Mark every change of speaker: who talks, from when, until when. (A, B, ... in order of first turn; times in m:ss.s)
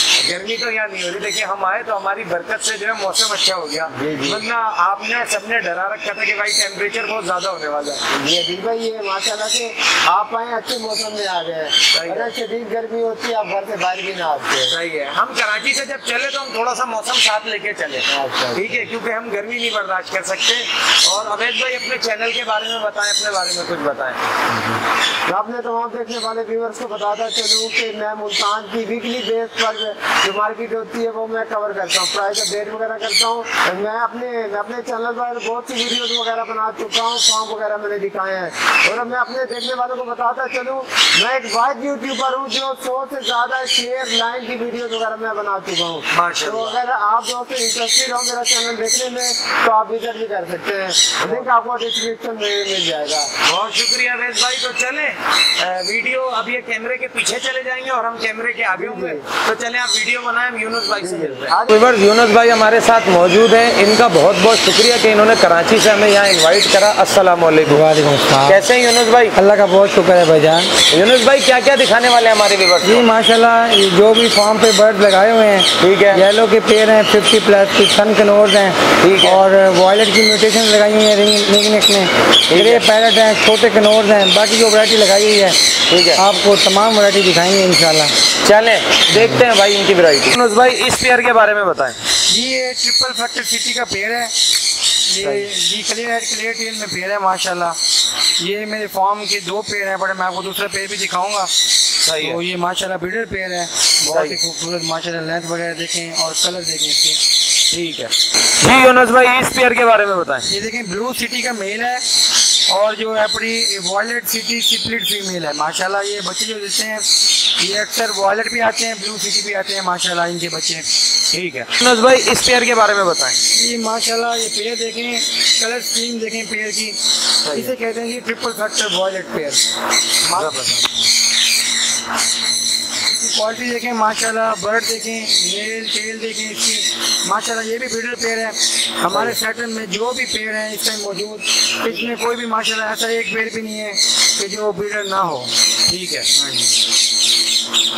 0:00.2-0:08.0 A
0:03.9-0:04.4 B
0:08.1-0:14.7 B
0:11.9-0:12.3 A
0:14.7-0:24.6 A
0:18.1-0:18.9 B
0:25.3-0:53.3 B
0:46.1-0:46.8 A
0:51.2-0:51.5 A
0:53.4-1:07.8 A
0:58.7-0:59.2 B
1:01.0-1:01.8 B
1:07.7-1:08.6 C
1:08.5-1:09.4 A
1:09.3-1:10.7 C
1:10.9-1:13.1 A
1:12.8-1:25.6 C
1:15.8-1:16.2 A
1:19.0-1:19.4 A
1:22.5-1:22.8 A
1:25.9-1:26.2 A
1:26.1-1:28.1 C
1:28.4-1:32.0 A
1:32.3-1:34.3 C
1:35.1-1:37.8 C
1:38.4-1:41.5 C
1:42.0-1:42.4 A
1:42.2-1:47.2 C
1:44.1-1:44.4 A
1:47.7-1:50.5 A
1:50.4-1:52.0 C
1:52.7-2:00.9 C
2:01.3-2:03.4 A
2:03.5-2:09.6 C
2:07.4-2:07.7 A
2:10.3-2:10.6 C
2:10.3-2:10.9 A
2:13.0-2:25.6 C
2:19.1-2:19.4 A
2:25.9-2:26.3 A
2:26.4-2:26.7 C